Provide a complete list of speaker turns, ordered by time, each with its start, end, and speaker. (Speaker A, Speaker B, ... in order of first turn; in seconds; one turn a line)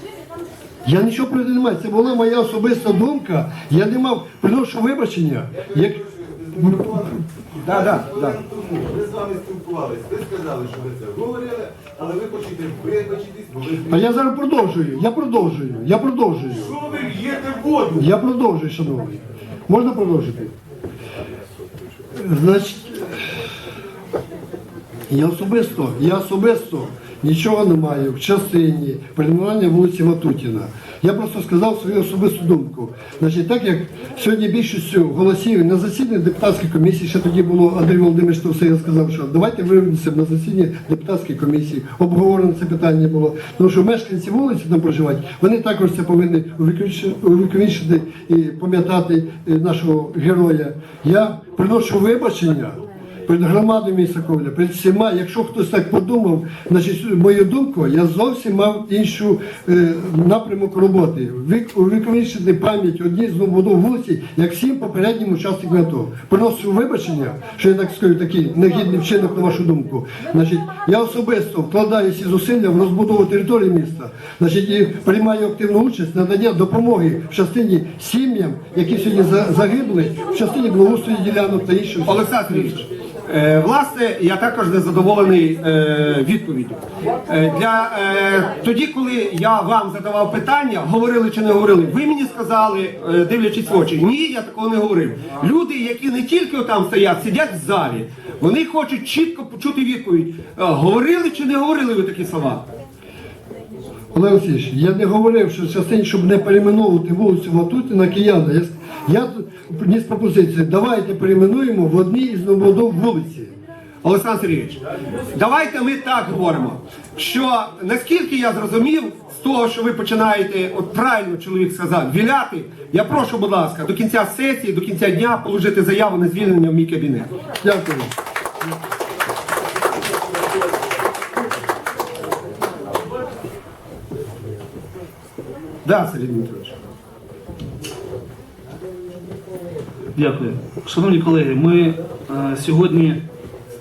Speaker A: 0.8-7.2
Speaker B: 7.6-8.4
Speaker C: 8.6-13.6
Speaker A: 13.7-16.8
Speaker C: 16.9-17.9
Speaker A: 17.9-20.5
Speaker A: 22.2-23.2
Speaker A: 25.1-82.1
Speaker B: 82.1-102.7
Speaker A: 104.1-113.5
Speaker B: 114.0-114.8
Speaker B: 115.3-127.3
Speaker A: 127.6-128.1
Speaker B: 135.8-136.8
Speaker D: 140.2-143.3